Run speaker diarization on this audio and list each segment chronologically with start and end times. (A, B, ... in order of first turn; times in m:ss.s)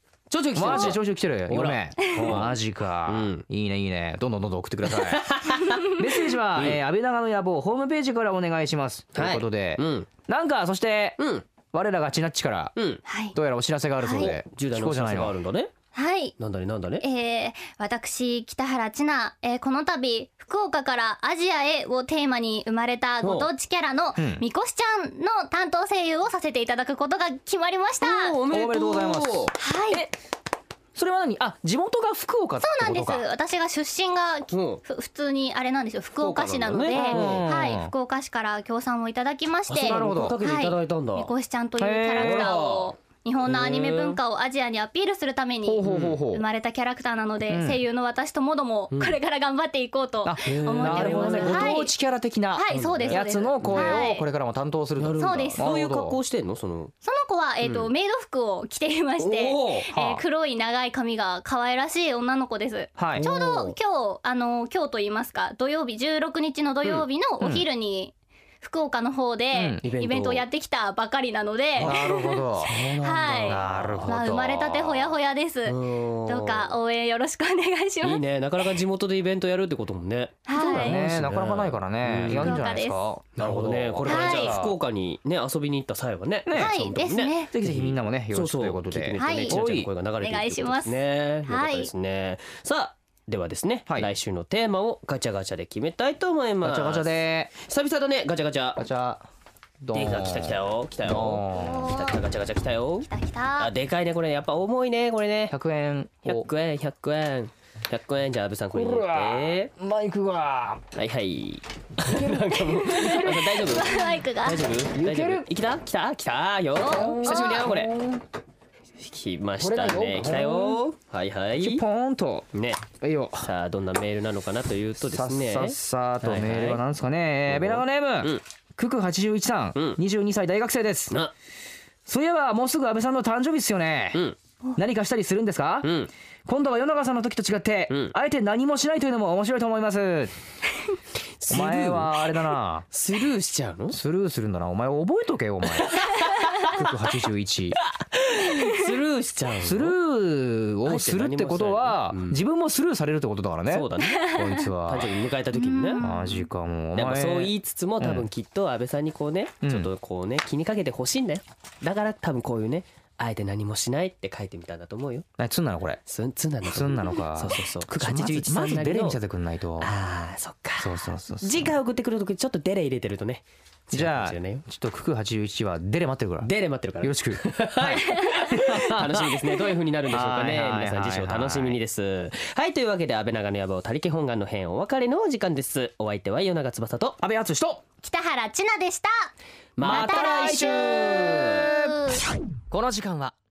0:00.3-0:03.4 A
0:00.5-0:11.2 B
0:04.9-0:05.8 A
0:06.6-0:06.8 A
0:09.1-0:10.1 A
0:11.2-0:11.5 A
0:11.7-0:12.7 B
0:12.8-0:13.0 A
0:13.0-0:13.4 C
0:13.3-0:15.4 B
0:14.0-0:14.3 C
0:14.1-0:15.7 A
0:15.9-0:16.3 C
0:16.4-0:17.0 A
0:17.0-0:28.4 C
0:23.2-0:23.5 A
0:24.2-0:24.4 B
0:28.0-0:29.5 A
0:28.5-0:30.1 B
0:29.6-0:30.0 C
0:30.9-0:33.2 B
0:32.6-0:51.9 C
0:34.5-0:34.8 A
0:36.2-0:37.4 A
0:36.9-0:37.9 B
0:39.7-0:41.3 A
0:39.7-0:40.4 B
0:41.8-0:42.5 B
0:42.2-0:44.2 A
0:45.6-0:46.4 B
0:45.9-0:46.2 A
0:47.5-0:47.8 B
0:48.9-0:49.2 A
0:50.2-0:56.2 B
0:50.4-0:51.8 A
0:52.5-0:54.2 C
0:52.7-0:54.1 A
0:55.0-0:56.9 A
0:55.2-0:55.6 C
0:57.0-1:12.4 C
0:57.6-0:57.9 A
0:59.4-1:00.2 B
1:03.0-1:03.7 B
1:03.2-1:03.5 A
1:07.4-1:07.6 B
1:09.5-1:09.8 B
1:09.8-1:10.4 A
1:11.8-1:12.0 A
1:11.8-1:12.7 B
1:12.6-1:14.2 A
1:13.0-1:18.2 C
1:13.5-1:15.2 B
1:15.6-1:16.8 A
1:18.0-1:22.6 A
1:20.4-1:21.0 C
1:20.6-1:24.8 B
1:22.3-1:23.0 C
1:23.4-1:38.8 A
1:24.0-1:24.6 C
1:26.4-1:26.8 B
1:26.5-1:27.5 C
1:27.5-1:29.9 B
1:29.2-1:29.6 C
1:30.2-1:31.9 C
1:36.6-1:37.5 B
1:38.8-1:39.2 B
1:39.8-1:41.9 B
1:39.9-1:45.6 A
1:41.5-1:42.2 C
1:43.1-1:43.7 C
1:45.5-1:46.5 B
1:46.2-1:49.7 A
1:48.7-1:50.8 B
1:50.9-1:57.9 A
1:52.0-1:53.5 B
1:53.6-1:54.6 C
1:55.0-1:55.5 B
1:56.8-1:57.7 C
1:56.8-1:58.2 B
1:59.0-2:01.8 A
1:59.6-2:00.8 B
2:01.6-2:03.5 B
2:02.5-2:06.8 A
2:05.0-2:11.2 B
2:07.5-2:08.4 A
2:09.7-2:10.0 A
2:12.0-2:14.2 B
2:14.8-2:15.9 B
2:15.8-2:16.1 A
2:16.4-2:20.3 B
2:17.9-2:18.2 A
2:21.4-2:22.2 A
2:21.5-2:22.8 B
2:22.9-2:24.0 A
2:23.9-2:27.8 B
2:25.9-2:26.8 A
2:27.9-2:30.0 A
2:29.6-2:35.1 B
2:30.8-2:32.4 A
2:33.7-2:36.0 A
2:35.5-2:36.5 C
2:36.0-2:38.3 B
2:36.9-2:45.2 A
2:39.6-2:39.9 B
2:45.4-2:46.0 B
2:46.1-2:49.2 A
2:46.7-2:49.9 B
2:49.8-2:54.6 A
2:50.8-2:51.7 B
2:53.9-2:59.4 B
2:56.4-3:07.2 A
3:00.1-3:01.8 B
3:07.2-3:07.8 B
3:08.0-3:09.3 C
3:09.8-3:11.7 A
3:09.8-3:12.0 B
3:09.8-3:10.8 C
3:11.6-3:12.2 C
3:12.7-3:13.4 B